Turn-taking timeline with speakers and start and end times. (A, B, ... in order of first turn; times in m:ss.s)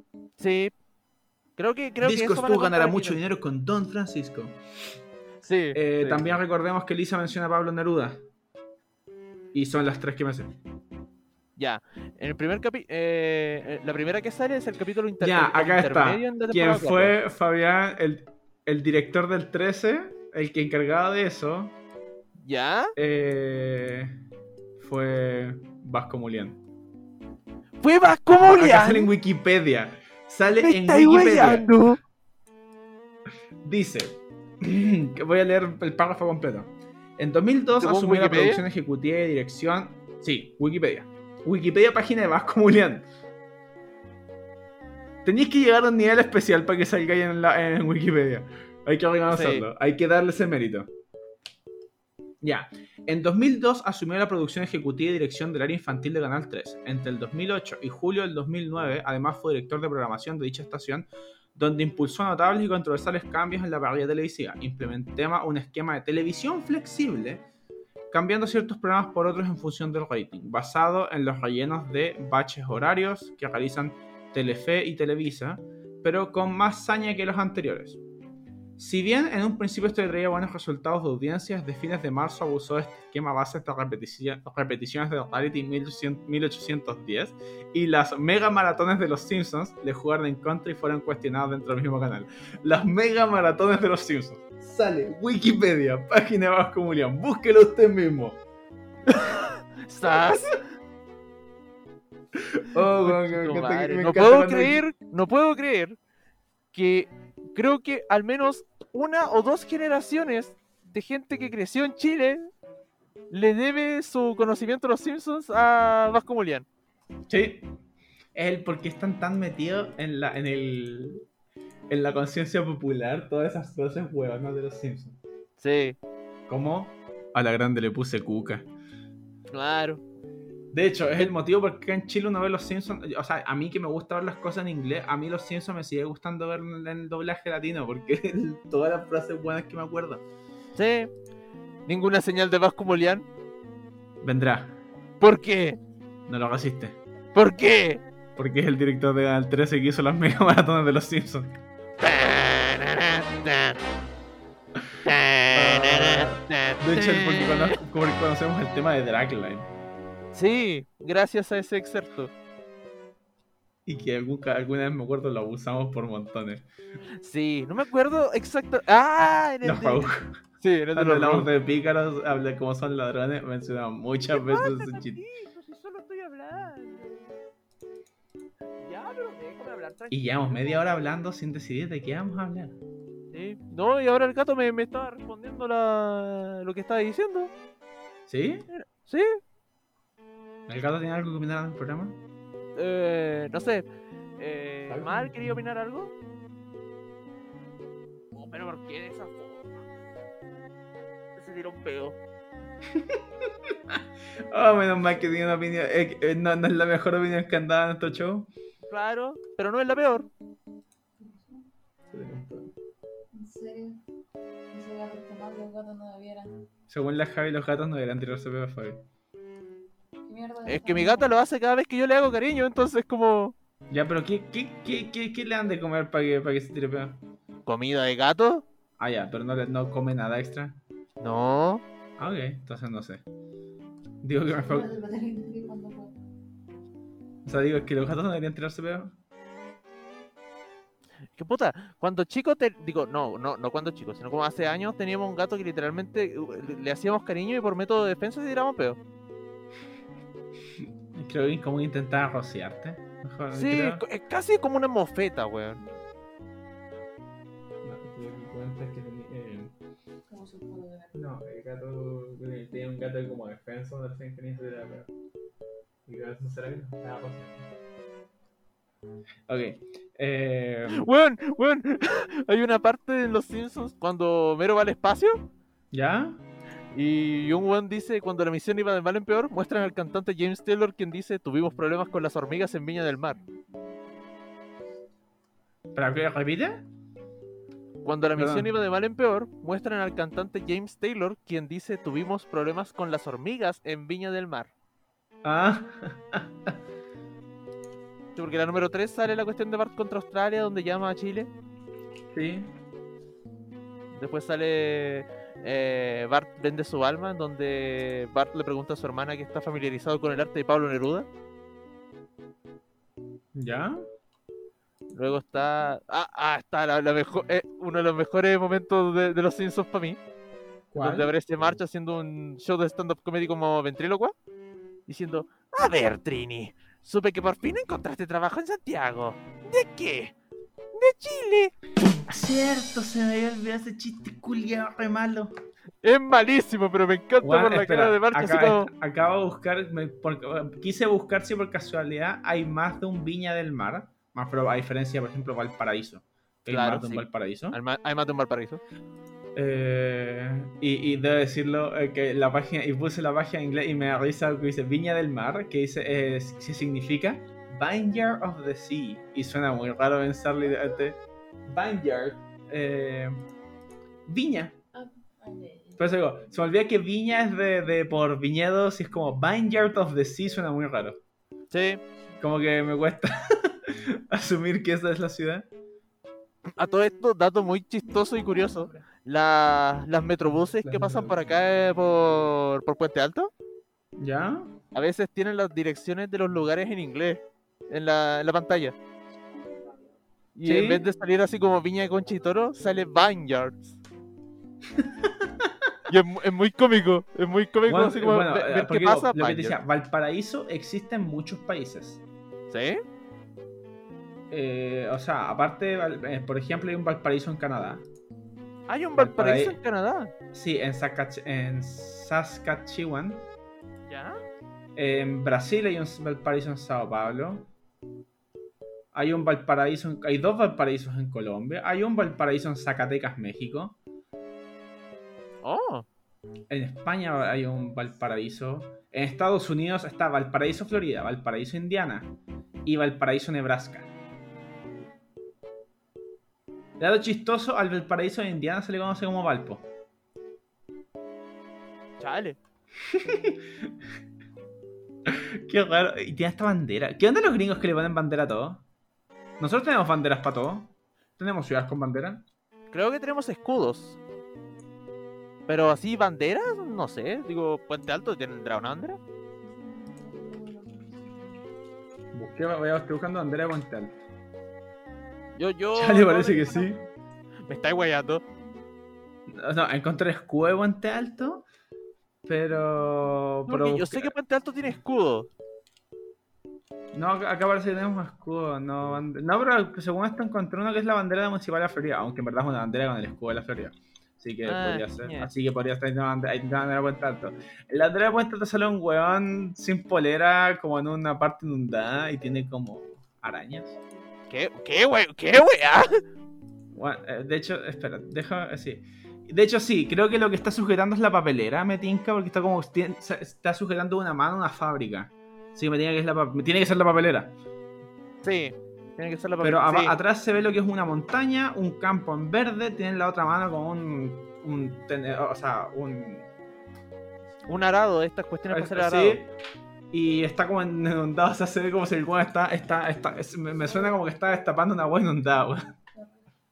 0:00.4-0:00.7 A
0:01.6-0:03.2 A
0:02.0-0:04.6 B
0:05.4-0:06.2 A
0:05.7-0:08.2 B
0:09.5-0:10.6 B
0:11.6-0:17.1 A
0:15.2-0:21.7 B
0:22.4-0:22.9 A
0:23.0-0:24.1 B
0:24.8-0:26.6 B
0:27.8-0:29.1 A
0:28.4-0:31.7 B
0:30.6-0:32.0 A
0:33.6-0:43.0 B
0:37.8-0:38.6 A
0:45.2-0:50.9 B
0:49.3-0:49.7 A
0:52.4-1:07.4 B
1:08.1-1:18.0 B
1:18.8-1:38.4 B
1:39.1-1:40.6 A
1:42.4-1:44.8 B
1:42.8-1:46.0 A
1:46.7-1:52.5 A
1:53.3-1:56.6 A
1:57.3-1:57.7 B
1:58.4-2:01.2 B
2:01.9-2:05.2 B
2:05.6-2:06.0 A
2:06.5-2:08.7 B
2:09.5-2:10.0 A
2:10.7-2:20.2 B
2:20.7-2:21.1 A
2:21.9-2:23.3 A
2:24.2-2:24.8 B
2:25.2-2:25.8 A
2:26.3-2:27.0 B
2:27.3-2:28.0 A
2:28.4-2:31.5 B
2:32.0-2:33.8 A
2:35.0-2:37.8 A
2:35.5-2:39.7 B
2:40.3-2:42.3 A
2:43.9-2:46.6 B
2:47.2-2:50.1 A
2:49.6-2:50.4 B
2:50.6-2:51.5 A
2:50.9-2:55.2 B
2:54.3-2:57.4 A
2:58.8-3:01.0 A
3:00.1-3:02.8 B
3:03.3-3:07.5 A
3:08.3-3:08.7 B
3:08.7-3:09.4 A
3:10.7-3:12.2 B
3:12.8-3:16.1 A
3:14.9-3:15.6 B
3:18.3-3:19.8 A
3:21.4-3:22.2 A
3:22.9-3:24.0 B
3:24.5-3:28.5 B
3:28.9-3:30.3 A
3:31.2-3:31.6 C
3:32.1-3:32.7 B
3:33.3-3:34.0 C
3:34.7-3:36.5 C
3:36.9-3:39.0 B
3:40.2-3:41.3 C
3:40.6-3:43.5 A
3:43.9-3:47.2 B
3:47.6-3:48.6 A
3:49.0-3:50.8 B
3:51.2-3:51.8 A
3:52.2-3:53.2 B
3:54.2-3:54.9 B
3:54.5-3:56.2 C
3:57.4-3:59.1 B
4:01.4-4:09.0 A
4:11.1-4:14.0 B
4:13.5-4:15.8 A
4:17.8-4:19.7 B
4:20.3-4:21.3 C
4:21.1-4:25.1 B
4:26.0-4:27.7 B
4:29.5-4:31.0 B
4:30.9-4:35.4 A
4:35.9-4:36.4 B
4:36.9-4:43.4 A
4:43.3-4:44.2 C
4:45.9-4:46.8 B
4:48.0-4:54.7 A
4:48.4-4:48.7 B
4:55.4-4:56.7 B
4:58.4-5:01.5 A
5:02.3-5:02.7 B
5:04.1-5:11.3 A
5:13.5-5:14.0 B
5:15.1-5:20.2 A
5:20.9-5:21.3 B
5:21.0-5:24.3 A
5:25.1-5:30.3 A
5:30.9-5:31.7 A
5:32.2-5:35.5 B
5:36.0-5:38.9 A
5:37.4-5:47.8 B
5:46.7-5:48.8 A
5:49.6-6:03.4 B
6:04.3-6:04.8 B
6:04.9-6:06.1 C
6:06.0-6:11.2 B
6:11.7-6:12.0 A
6:12.4-6:15.7 B
6:16.8-6:23.5 A
6:18.1-6:18.9 C
6:20.7-6:21.4 B
6:24.2-6:24.7 B
6:24.9-6:29.0 A
6:30.6-6:34.0 A
6:30.6-6:31.0 B
6:35.0-6:35.7 B
6:36.1-6:39.8 A
6:37.9-6:42.2 B
6:42.7-6:43.0 A
6:44.5-6:48.0 B
6:48.9-6:50.3 A
6:49.2-6:49.8 B
6:50.5-6:53.4 B
6:54.1-6:54.4 A
6:55.0-6:57.7 B
6:59.1-7:04.0 B
7:05.6-7:06.0 A
7:06.7-7:12.3 B
7:12.8-7:14.1 B
7:17.0-7:19.9 B
7:22.2-7:22.6 A
7:23.1-7:23.6 B
7:25.3-7:28.8 B
7:29.6-7:32.4 B
7:32.9-7:34.2 A
7:35.7-7:39.2 A
7:39.6-7:41.6 C
7:42.3-7:44.2 B
7:45.5-7:46.9 A
7:45.9-7:47.0 B
7:47.6-7:48.4 A
7:47.7-7:48.8 C
7:49.5-7:51.6 B
7:52.4-7:54.3 B
7:53.7-7:55.5 A
7:57.1-8:13.9 B
8:04.6-8:05.5 A
8:14.5-8:16.2 A
8:16.9-8:27.6 B
8:28.4-8:30.2 A
8:29.6-8:36.4 B
8:37.7-8:39.4 A
8:38.7-8:39.5 B
8:40.1-8:45.8 B